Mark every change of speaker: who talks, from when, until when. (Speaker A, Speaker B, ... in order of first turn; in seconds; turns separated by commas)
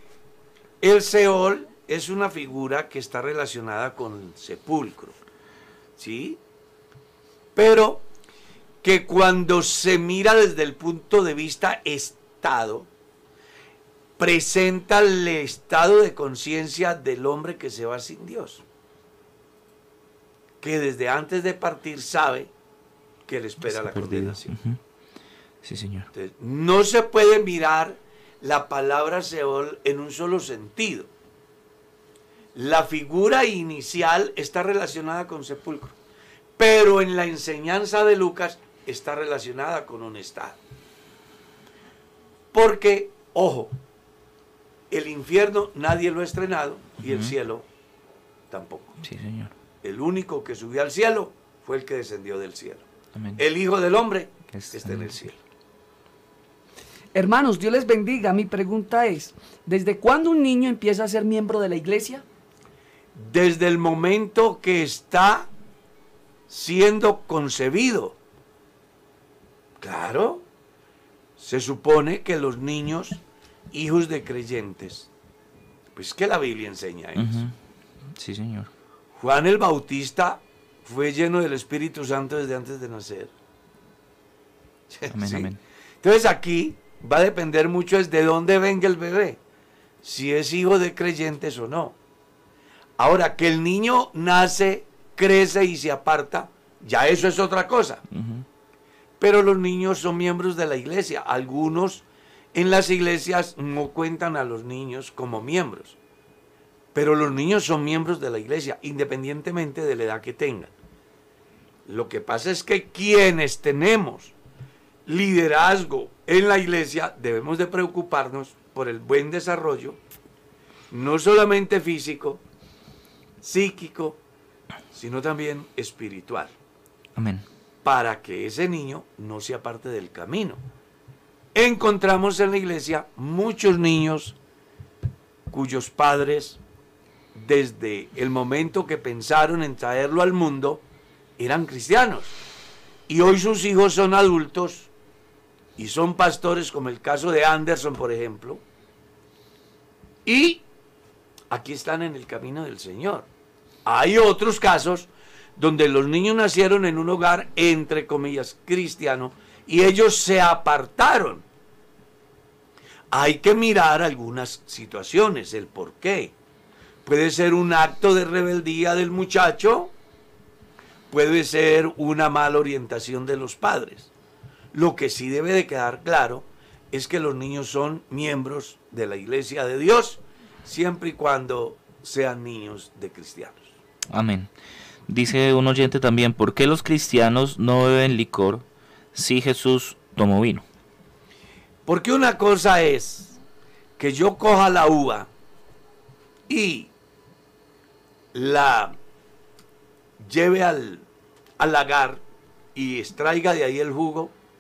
Speaker A: 0.8-5.2, Speaker A: 6.0-6.4, Speaker A: 7.5-8.1, Speaker A: 8.8-12.9, Speaker A: 14.2-18.6, Speaker A: 20.6-22.5, Speaker A: 23.3-24.5, Speaker B: 23.7-24.8, Speaker B: 25.6-26.1, Speaker A: 26.1-31.1, Speaker A: 32.5-36.0, Speaker A: 36.6-40.6, Speaker A: 42.5-43.7, Speaker A: 44.9-47.6, Speaker B: 47.0-47.3, Speaker A: 48.5-49.0, Speaker B: 49.0-49.5, Speaker A: 49.8-52.9, Speaker B: 53.1-53.4, Speaker A: 53.4-55.4, Speaker B: 54.5-55.2, Speaker C: 57.1-62.2, Speaker A: 63.1-65.5, Speaker A: 66.5-68.2, Speaker A: 69.8-70.5, Speaker A: 71.4-73.2, Speaker A: 73.7-75.1, Speaker A: 76.0-77.5, Speaker B: 77.2-77.5, Speaker B: 78.2-78.7, Speaker A: 79.2-83.3, Speaker A: 84.9-89.4, Speaker B: 85.1-85.6, Speaker A: 90.0-92.0, Speaker A: 93.0-98.0, Speaker B: 98.1-98.5, Speaker A: 99.2-106.0, Speaker A: 107.0-110.7, Speaker A: 111.9-114.3, Speaker A: 115.1-120.0, Speaker A: 120.9-122.4, Speaker A: 123.4-124.2, Speaker A: 124.9-126.5, Speaker B: 127.2-127.5, Speaker A: 127.8-130.6, Speaker A: 131.6-134.4, Speaker A: 135.5-136.6, Speaker A: 137.3-140.8, Speaker A: 141.4-142.4, Speaker A: 143.1-144.9, Speaker A: 145.8-148.6, Speaker A: 150.3-150.7, Speaker A: 151.5-153.3, Speaker A: 153.8-161.5, Speaker A: 163.1-166.3, Speaker A: 167.1-169.9, Speaker A: 171.1-174.1, Speaker A: 174.7-183.7, Speaker B: 184.1-184.5, Speaker B: 185.1-190.7, Speaker A: 191.9-193.4, Speaker A: 194.0-195.3, Speaker A: 196.5-196.9, Speaker A: 198.3-199.0, Speaker A: 200.2-201.1, Speaker A: 201.6-202.2, Speaker A: 202.8-204.3